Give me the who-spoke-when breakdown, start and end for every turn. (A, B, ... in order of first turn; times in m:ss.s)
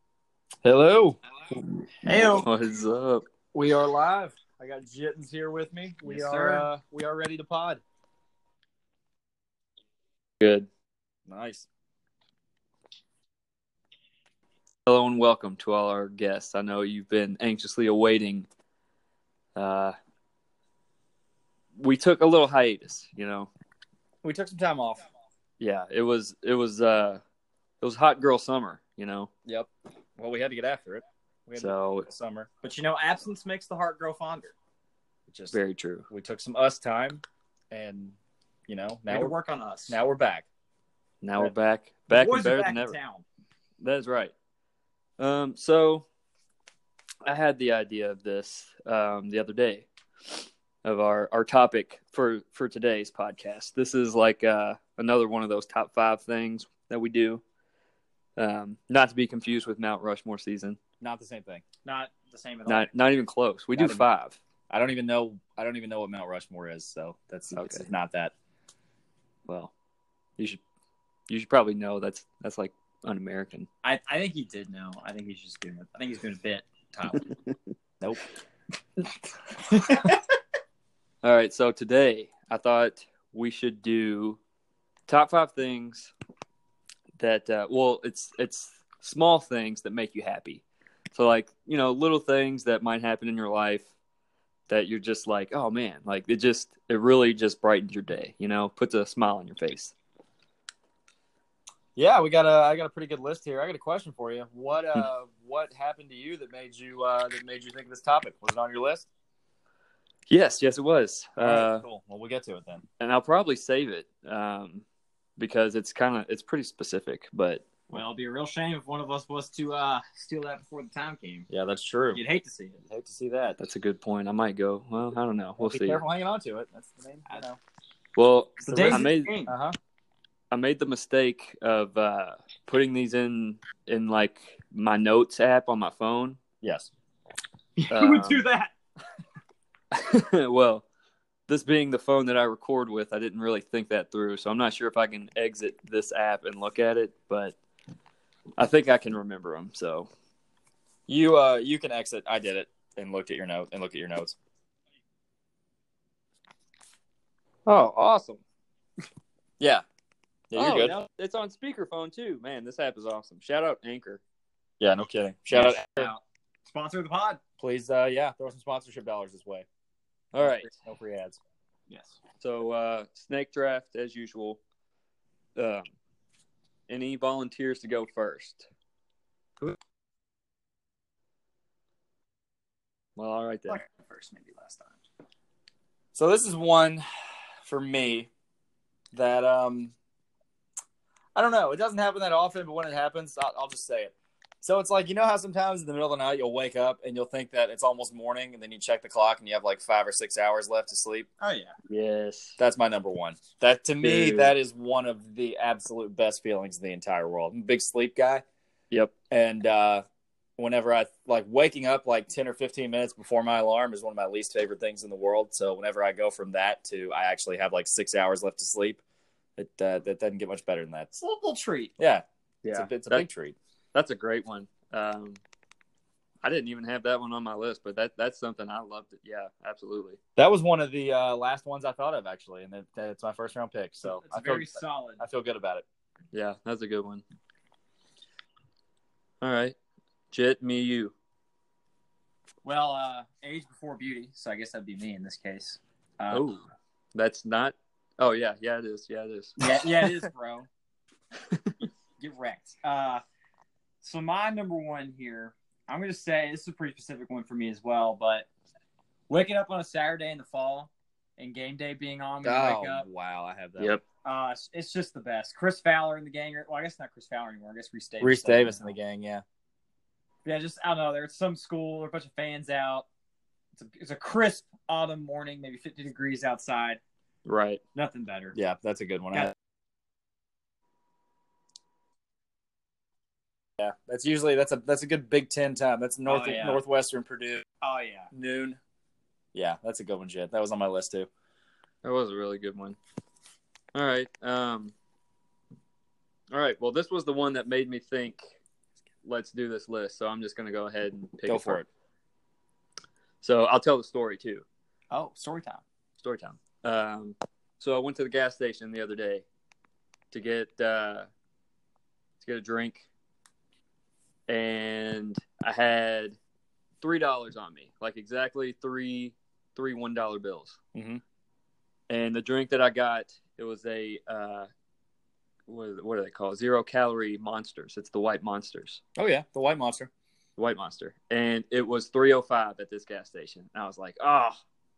0:00.6-0:01.2 A
0:02.0-0:02.5 B
0:02.3-0:03.2 C
0:03.5-0:07.8 A
0:06.0-0:06.7 B
0:10.4-0:10.7 C
0:11.3-0:11.7 A
0:14.8-0:18.5 C
0:19.6-0:19.9 C
0:21.8-0:23.5 C
0:24.2-0:25.0 A
0:25.6-0:27.2 C
0:27.8-0:29.3 C
0:29.4-0:32.5 A
0:31.6-0:32.0 C
0:32.6-0:34.5 B
0:35.3-0:35.6 A
0:35.5-0:36.1 C
0:36.1-0:38.2 A
0:38.7-0:39.3 A
0:39.1-0:40.0 B
0:39.9-0:40.5 A
0:41.2-0:42.9 C
0:42.1-0:43.2 B
0:43.8-0:44.3 C
0:45.2-0:46.0 C
0:47.2-0:49.9 C
0:50.8-0:57.4 C
0:58.4-1:00.8 C
1:01.0-1:01.6 A
1:01.8-1:02.9 B
1:02.7-1:04.4 C
1:03.8-1:04.0 A
1:04.7-1:08.3 A
1:07.5-1:07.8 C
1:11.3-1:13.7 C
1:13.8-1:17.2 B
1:21.2-1:24.4 C
1:25.1-1:26.1 C
1:27.2-1:33.9 C
1:34.7-1:39.9 C
1:42.0-1:49.1 A
1:50.3-1:51.8 C
1:51.4-1:52.8 A
1:53.0-1:54.8 C
1:55.4-1:57.6 C
1:57.9-2:01.5 B
2:01.5-2:02.2 A
2:02.1-2:02.8 B
2:02.8-2:03.6 A
2:03.6-2:06.0 C
2:05.6-2:07.6 A
2:08.2-2:09.3 C
2:08.6-2:09.5 B
2:08.7-2:09.8 A
2:10.5-2:16.4 C
2:16.6-2:16.9 A
2:17.8-2:18.7 B
2:17.9-2:18.4 C
2:19.9-2:20.8 C
2:21.5-2:27.6 C
2:28.6-2:30.1 C
2:31.1-2:34.3 A
2:37.6-2:38.4 C
2:40.5-2:40.9 A
2:40.5-2:44.2 C
2:40.8-2:41.0 B
2:44.8-2:46.1 A
2:45.5-2:47.4 B
2:47.6-2:49.6 A
2:50.3-2:50.7 C
2:50.4-2:51.4 A
2:51.9-2:52.2 B
2:52.4-2:54.6 C
2:55.6-2:55.8 C
2:56.9-2:58.7 C
3:03.2-3:03.8 C
3:03.7-3:05.0 B
3:06.1-3:07.0 A
3:07.6-3:08.3 A
3:09.1-3:09.9 A
3:11.3-3:21.3 A
3:21.4-3:21.8 B
3:21.9-3:22.6 C
3:22.6-3:28.4 A
3:24.0-3:24.5 C
3:29.3-3:30.0 A
3:30.6-3:39.0 A
3:39.6-3:41.1 A
3:41.2-3:41.9 B
3:42.0-3:43.6 A
3:42.6-3:43.2 C
3:43.9-3:45.4 C
3:46.4-3:50.2 C
3:50.4-3:55.8 A
3:54.0-3:55.2 B
3:56.3-3:57.2 C
3:59.4-3:59.7 C
4:00.3-4:01.1 C
4:02.6-4:06.5 B
4:06.3-4:06.6 C
4:07.1-4:09.6 C
4:09.6-4:10.7 B
4:12.2-4:13.2 B
4:14.0-4:18.5 B
4:19.3-4:23.0 B
4:22.4-4:24.0 A
4:24.2-4:28.9 B
4:28.2-4:29.4 A
4:30.4-4:33.0 B
4:33.8-4:37.0 B
4:37.4-4:37.8 C
4:37.9-4:38.6 B
4:38.5-4:39.5 A
4:43.8-4:47.6 A
4:46.2-4:46.8 B
4:47.8-4:48.3 B
4:48.3-4:48.8 A
4:49.5-4:51.3 A
4:52.0-4:53.0 C
4:53.9-4:54.9 C
4:56.5-4:58.5 C
4:59.2-5:01.8 C
5:01.5-5:01.8 A
5:03.4-5:04.6 C
5:05.1-5:05.8 B
5:06.2-5:09.4 C
5:10.3-5:11.3 C
5:12.4-5:13.1 C
5:14.5-5:16.4 C
5:17.0-5:20.8 C
5:20.9-5:21.2 A
5:22.1-5:24.7 C
5:25.7-5:29.0 C
5:29.2-5:30.1 A
5:30.6-5:34.6 C